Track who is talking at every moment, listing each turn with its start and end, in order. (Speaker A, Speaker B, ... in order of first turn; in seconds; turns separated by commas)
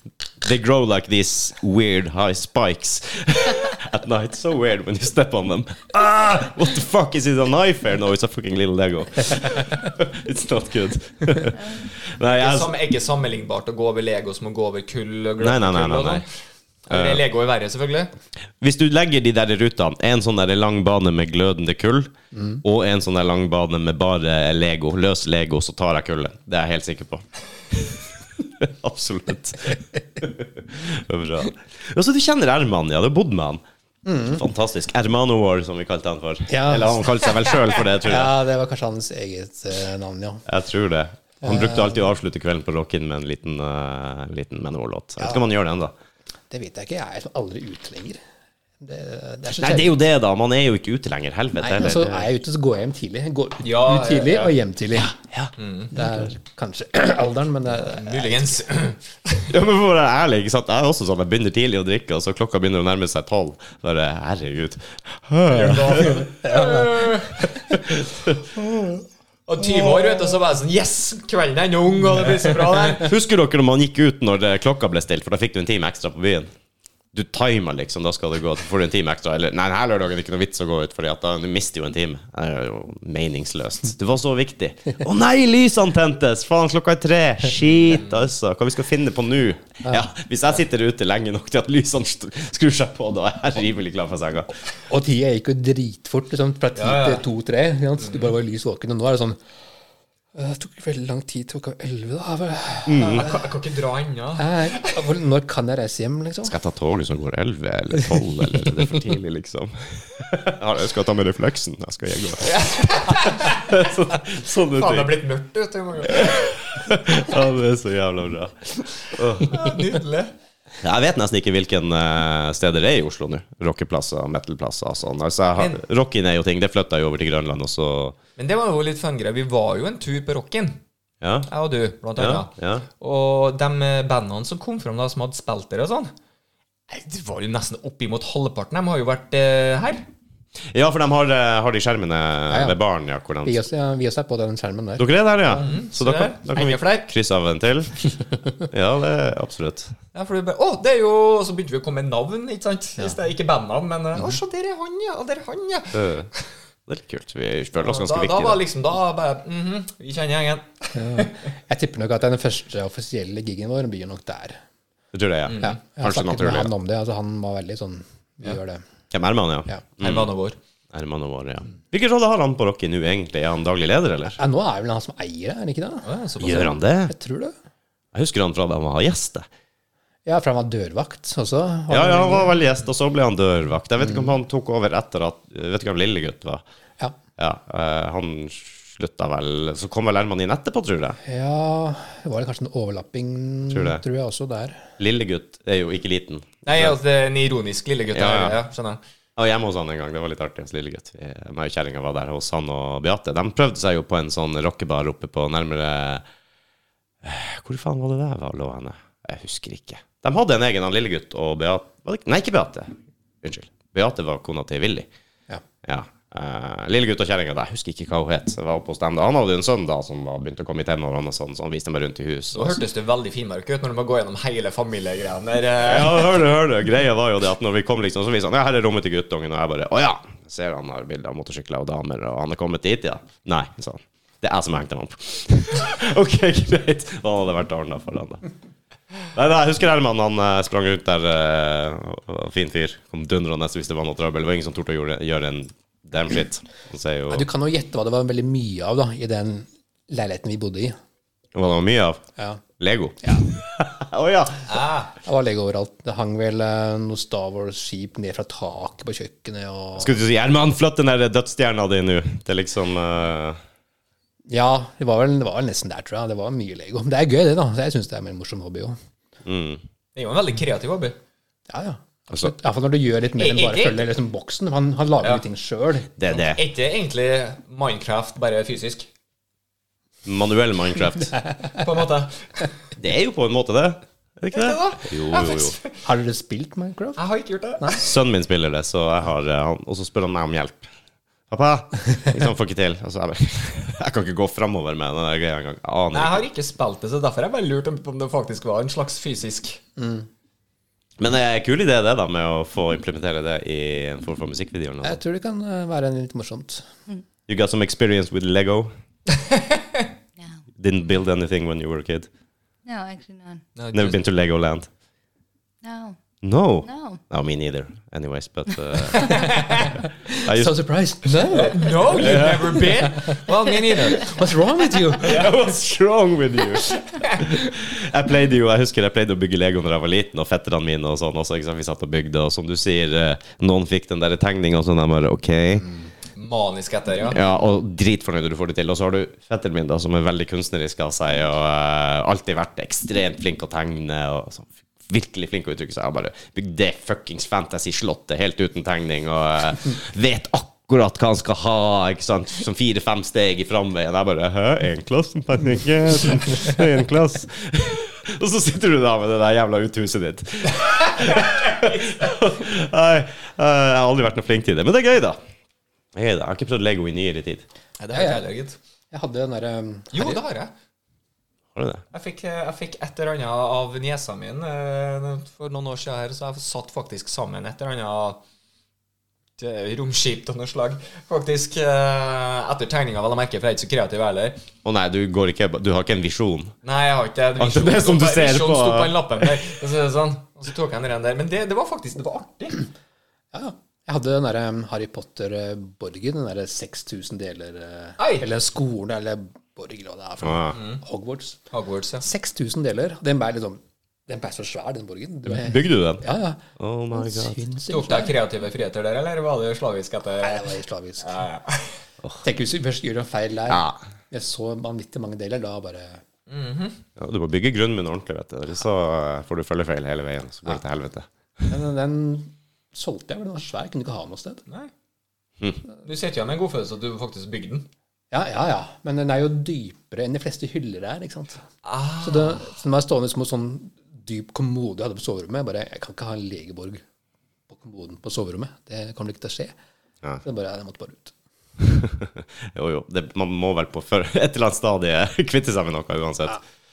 Speaker A: 0.4-12.7, Speaker B: 11.6-11.8, Speaker C: 12.3-16.3, Speaker A: 15.4-16.2, Speaker C: 16.9-18.1, Speaker A: 16.9-17.2, Speaker A: 18.6-33.6, Speaker D: 22.3-22.6, Speaker D: 34.0-34.4, Speaker A: 34.2-38.3, Speaker D: 36.5-37.3, Speaker D: 38.0-40.4, Speaker A: 40.5-45.9, Speaker D: 41.4-42.0, Speaker D: 46.5-48.2, Speaker D: 48.8-50.0, Speaker A: 49.5-52.3, Speaker D: 51.6-55.2, Speaker C: 53.6-54.5, Speaker A: 55.3-56.3, Speaker C: 55.6-55.9, Speaker D: 55.9-58.5, Speaker C: 57.7-59.5, Speaker A: 59.5-66.2, Speaker C: 65.5-67.5, Speaker D: 66.4-66.9, Speaker A: 67.7-68.3, Speaker C: 69.5-73.1, Speaker A: 73.0-76.5, Speaker A: 77.1-94.5, Speaker C: 87.8-88.2, Speaker D: 94.9-99.4, Speaker C: 96.7-97.2, Speaker D: 100.3-103.4, Speaker A: 102.9-103.3, Speaker C: 103.1-105.0, Speaker D: 104.4-106.5, Speaker A: 106.4-112.5, Speaker C: 112.4-113.7, Speaker A: 113.1-115.2, Speaker C: 114.7-116.5, Speaker A: 116.2-119.7, Speaker C: 119.4-120.3, Speaker A: 120.8-128.2, Speaker C: 125.5-125.8, Speaker C: 128.4-130.8, Speaker A: 131.2-131.5, Speaker C: 131.5-136.1, Speaker A: 132.2-132.8, Speaker C: 136.9-140.1, Speaker A: 140.7-143.6, Speaker D: 142.5-142.8, Speaker D: 143.4-145.6, Speaker A: 145.0-148.1, Speaker C: 145.5-147.1, Speaker A: 148.6-149.9, Speaker C: 150.1-156.4, Speaker A: 155.9-156.3, Speaker A: 156.9-158.6, Speaker C: 157.8-161.4, Speaker D: 160.9-164.6, Speaker A: 165.1-166.7, Speaker C: 165.5-165.8, Speaker D: 165.6-168.8, Speaker A: 169.1-170.3, Speaker C: 170.0-170.6, Speaker A: 170.9-174.4, Speaker D: 174.4-176.1, Speaker C: 176.0-176.8, Speaker A: 176.4-177.1, Speaker D: 177.1-177.5, Speaker A: 178.1-179.4, Speaker D: 180.2-182.5, Speaker A: 181.9-186.6, Speaker A: 187.4-191.2, Speaker D: 191.2-194.9, Speaker A: 193.7-194.0, Speaker A: 195.0-196.9, Speaker C: 196.6-199.0, Speaker A: 198.1-198.6, Speaker A: 199.4-206.2, Speaker A: 207.2-215.1, Speaker A: 215.8-222.8, Speaker C: 222.5-226.3, Speaker A: 225.8-238.4, Speaker A: 239.3-247.4, Speaker D: 247.3-250.9, Speaker A: 251.5-252.2, Speaker D: 252.4-252.6, Speaker A: 252.8-254.7, Speaker C: 254.7-255.1, Speaker D: 255.2-260.2, Speaker A: 260.0-263.6, Speaker D: 264.5-269.0, Speaker A: 269.4-269.8, Speaker C: 270.1-271.2, Speaker D: 271.7-276.1, Speaker C: 273.4-274.1, Speaker A: 276.1-276.6, Speaker C: 276.3-279.1, Speaker A: 280.2-281.4, Speaker C: 281.8-282.7, Speaker A: 282.9-285.8, Speaker C: 284.5-286.0, Speaker D: 286.0-287.2, Speaker C: 287.2-288.0, Speaker A: 288.0-290.9, Speaker A: 291.5-296.4, Speaker C: 296.1-299.8, Speaker D: 300.0-300.3, Speaker A: 301.2-305.2, Speaker D: 305.0-306.9, Speaker A: 307.5-308.9, Speaker C: 309.4-310.1, Speaker A: 310.8-312.3, Speaker B: 312.8-313.6, Speaker C: 313.8-314.2, Speaker A: 313.9-314.9, Speaker B: 315.8-316.2, Speaker A: 316.4-319.5, Speaker B: 316.8-317.2, Speaker B: 319.0-319.3, Speaker C: 319.5-319.9, Speaker A: 320.4-320.8, Speaker D: 320.4-323.4, Speaker C: 321.5-324.3, Speaker A: 322.1-322.9, Speaker D: 324.1-325.5, Speaker A: 325.2-335.9, Speaker C: 325.2-325.5, Speaker C: 327.0-327.4, Speaker C: 336.4-337.4, Speaker A: 337.3-365.4, Speaker A: 366.1-367.6, Speaker C: 368.0-368.8, Speaker D: 368.1-368.4, Speaker D: 369.1-370.4, Speaker C: 370.1-370.7, Speaker A: 371.7-372.0, Speaker C: 372.1-378.4, Speaker C: 379.6-384.6, Speaker A: 384.8-386.7, Speaker C: 386.8-392.9, Speaker A: 387.6-389.5, Speaker D: 393.5-401.6, Speaker C: 398.2-398.5, Speaker A: 400.4-400.8, Speaker C: 400.7-401.0, Speaker C: 401.7-402.2, Speaker D: 402.2-408.4, Speaker A: 405.4-406.2, Speaker A: 406.8-407.6, Speaker C: 407.9-411.9, Speaker D: 410.4-411.3, Speaker D: 412.4-416.2, Speaker A: 413.7-414.0, Speaker C: 416.5-417.0, Speaker A: 417.2-421.7, Speaker D: 421.7-424.6, Speaker C: 426.0-427.9, Speaker D: 428.3-431.6, Speaker C: 431.8-432.7, Speaker D: 432.2-437.0, Speaker D: 437.7-439.7, Speaker D: 440.4-441.3, Speaker A: 441.8-446.6